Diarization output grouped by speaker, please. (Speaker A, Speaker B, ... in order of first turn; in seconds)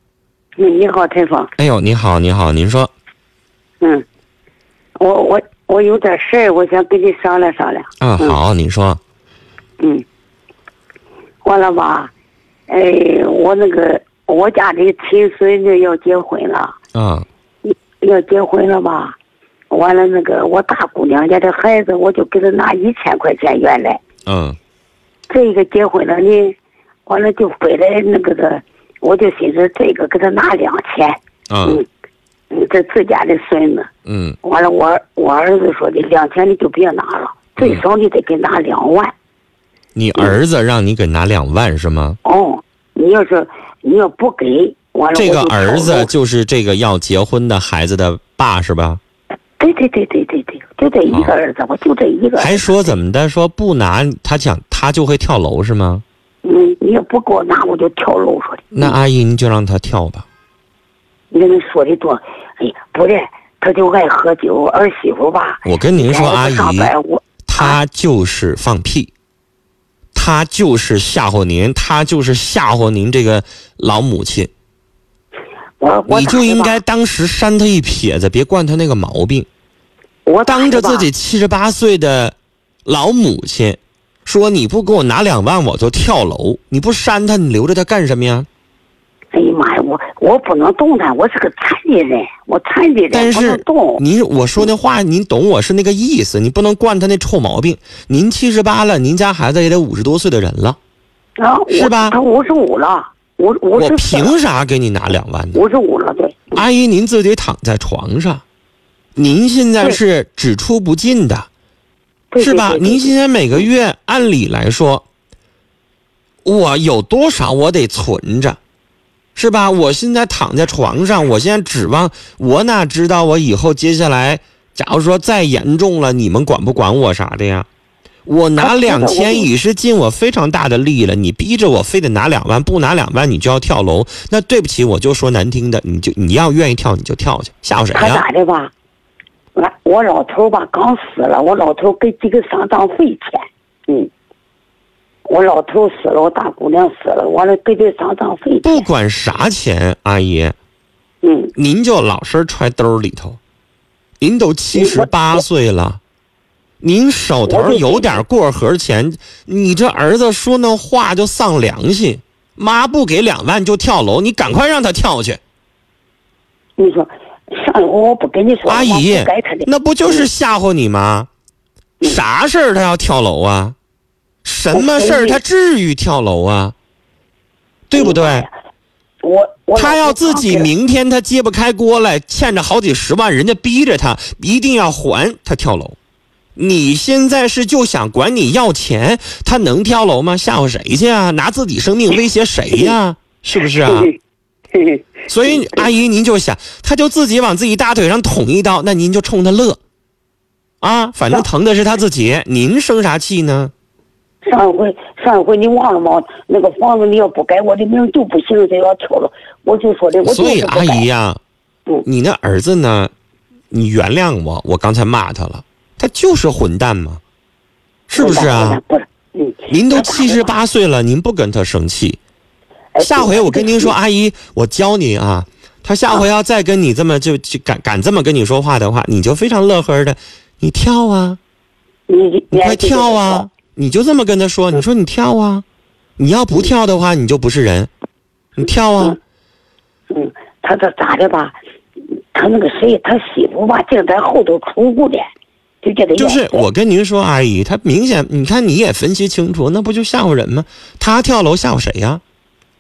Speaker A: 0.6-1.5, 3.8-4.1, 5.0-8.4, 11.4-12.1, 12.7-16.8, 17.7-19.2, 19.7-24.0, 25.3-31.9, 32.5-33.9, 34.4-39.1, 42.2-46.1, 49.6-53.0, 56.4-59.0, 61.3-67.8, 75.8-76.8, 80.3-81.1, 89.3-94.0, 101.4-104.3, 105.5-106.6, 112.3-113.1, 128.6-129.5, 137.9-138.7, 139.6-144.1, 145.3-148.9, 151.2-151.5, 154.8-155.4, 157.4-158.2, 166.8-170.3, 174.7-175.4, 178.0-178.5, 179.2-180.7, 193.8-194.1, 194.7-195.9, 204.4-211.1, 218.1-220.5, 222.9-223.9, 232.1-233.5, 240.1-241.6, 242.3-245.3, 245.8-246.6
Speaker B: 1.6-2.9, 8.0-9.0, 16.9-17.3, 24.3-24.6, 31.5-31.8, 34.1-34.4, 40.0-42.2, 45.1-49.0, 52.4-56.0, 58.7-60.3, 65.7-66.9, 67.5-69.1, 70.2-74.5, 76.1-79.5, 80.5-82.3, 82.9-88.5, 93.1-100.8, 101.7-102.2, 103.8-105.6, 106.5-108.4, 109.2-111.5, 112.4-115.0, 116.5-118.6, 119.3-127.7, 128.3-138.2, 148.6-150.6, 151.6-153.4, 154.2-156.0, 156.8-165.4, 168.7-171.3, 172.0-173.8, 174.4-176.7, 177.9-178.5, 179.8-186.0, 186.6-194.1, 195.3-199.8, 200.8-203.7, 210.2-211.4, 212.1-213.1, 213.7-217.2, 218.1-218.8, 219.7-222.2, 223.0-231.4, 232.5-235.6, 236.2-237.9, 238.6-239.2, 246.2-252.2